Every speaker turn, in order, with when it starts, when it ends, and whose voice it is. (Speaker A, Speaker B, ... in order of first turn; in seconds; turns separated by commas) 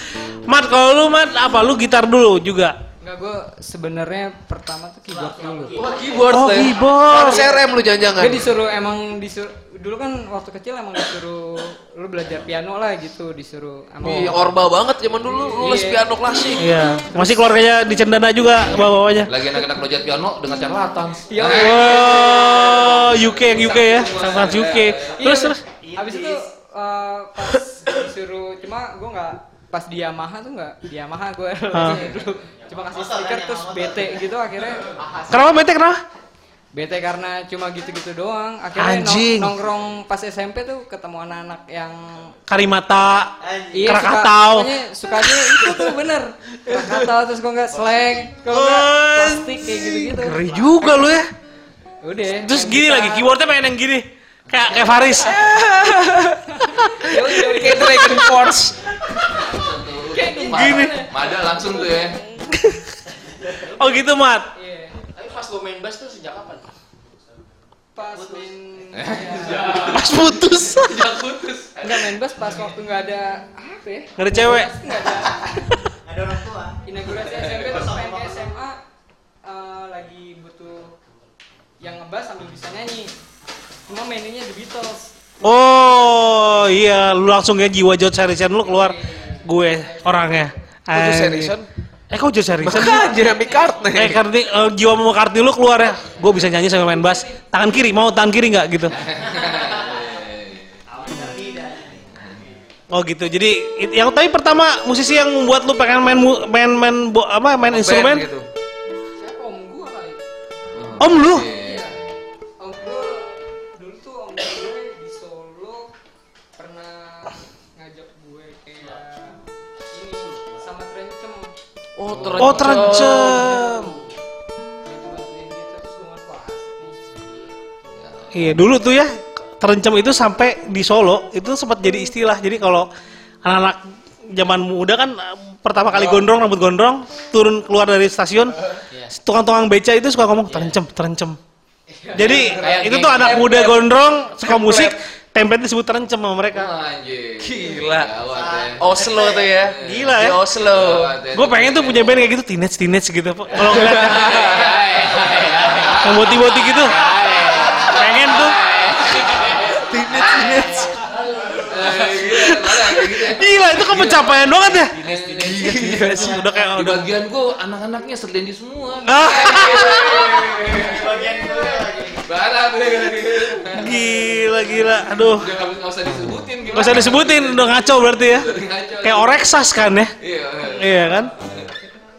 Speaker A: 0.5-2.8, Speaker B: 3.0-5.8, Speaker C: 5.3-6.6, Speaker D: 5.7-6.6, Speaker E: 5.8-8.4, Speaker A: 6.3-7.4, Speaker B: 8.2-14.5, Speaker E: 14.0-16.7, Speaker B: 15.6-17.3, Speaker A: 16.6-19.3, Speaker F: 19.3-25.2, Speaker B: 21.3-35.3, Speaker A: 21.4-25.6, Speaker C: 25.6-26.4, Speaker A: 31.7-32.1, Speaker C: 32.7-34.3, Speaker C: 34.8-35.4, Speaker A: 35.3-36.0, Speaker B: 36.7-42.4, Speaker A: 38.8-39.5, Speaker A: 42.5-43.3, Speaker C: 43.4-44.0, Speaker B: 43.7-50.9, Speaker A: 43.8-44.7, Speaker A: 45.2-45.7, Speaker A: 48.5-51.3, Speaker B: 52.0-53.3, Speaker A: 52.3-55.3, Speaker B: 54.7-55.4, Speaker E: 55.2-56.4, Speaker B: 56.5-58.5, Speaker E: 57.0-59.0, Speaker B: 59.2-62.5, Speaker F: 59.3-62.2, Speaker A: 60.4-61.0, Speaker A: 62.5-62.8, Speaker A: 63.6-64.5, Speaker B: 64.5-65.0, Speaker D: 65.0-66.7, Speaker B: 68.0-70.1, Speaker C: 68.2-68.5, Speaker F: 68.9-72.1, Speaker A: 69.9-71.0, Speaker B: 71.8-75.9, Speaker A: 74.2-74.7, Speaker C: 75.0-78.4, Speaker B: 76.9-78.8, Speaker B: 79.4-81.0, Speaker B: 81.8-83.1, Speaker B: 83.9-85.1, Speaker A: 85.4-91.5, Speaker B: 88.6-90.5, Speaker E: 90.9-91.7, Speaker A: 92.1-93.2, Speaker E: 92.6-94.2, Speaker B: 92.8-93.9, Speaker A: 94.0-99.0, Speaker B: 97.0-97.3, Speaker F: 98.9-100.7, Speaker C: 99.5-100.2, Speaker C: 100.9-102.1, Speaker A: 102.9-108.3, Speaker E: 107.7-108.5, Speaker B: 109.2-110.2, Speaker F: 110.7-112.0, Speaker A: 111.0-111.5, Speaker B: 111.6-112.0, Speaker B: 112.6-115.9, Speaker B: 116.6-119.4, Speaker B: 120.0-121.5, Speaker E: 122.0-123.5, Speaker D: 122.1-122.9, Speaker B: 122.4-124.0, Speaker A: 122.4-123.9, Speaker B: 124.8-127.5, Speaker F: 128.0-128.3, Speaker A: 128.3-132.9, Speaker A: 133.4-138.6, Speaker E: 135.9-136.3, Speaker D: 138.9-139.2, Speaker A: 139.2-141.4, Speaker D: 140.4-140.8, Speaker A: 142.1-146.7, Speaker E: 142.2-145.0, Speaker D: 142.2-143.6, Speaker F: 146.5-149.0, Speaker E: 147.4-148.1, Speaker C: 148.3-149.5, Speaker E: 148.8-151.1, Speaker F: 149.6-152.3, Speaker A: 149.8-150.4, Speaker A: 151.3-154.4, Speaker E: 153.6-154.7, Speaker D: 153.9-156.1, Speaker F: 154.2-157.0, Speaker A: 156.0-156.9, Speaker D: 156.8-160.6, Speaker A: 157.8-158.6, Speaker F: 159.1-159.6, Speaker E: 159.7-160.9, Speaker F: 160.2-160.7, Speaker C: 161.4-161.7, Speaker F: 161.6-166.1, Speaker A: 162.2-164.9, Speaker D: 164.9-166.2, Speaker E: 165.4-166.4, Speaker A: 165.8-167.1, Speaker F: 166.7-171.5, Speaker A: 169.1-170.3, Speaker C: 169.9-172.2, Speaker F: 172.1-174.6, Speaker A: 173.7-175.5, Speaker F: 175.2-179.5, Speaker A: 176.7-178.5, Speaker A: 179.0-180.1, Speaker F: 180.2-181.7, Speaker A: 180.7-181.3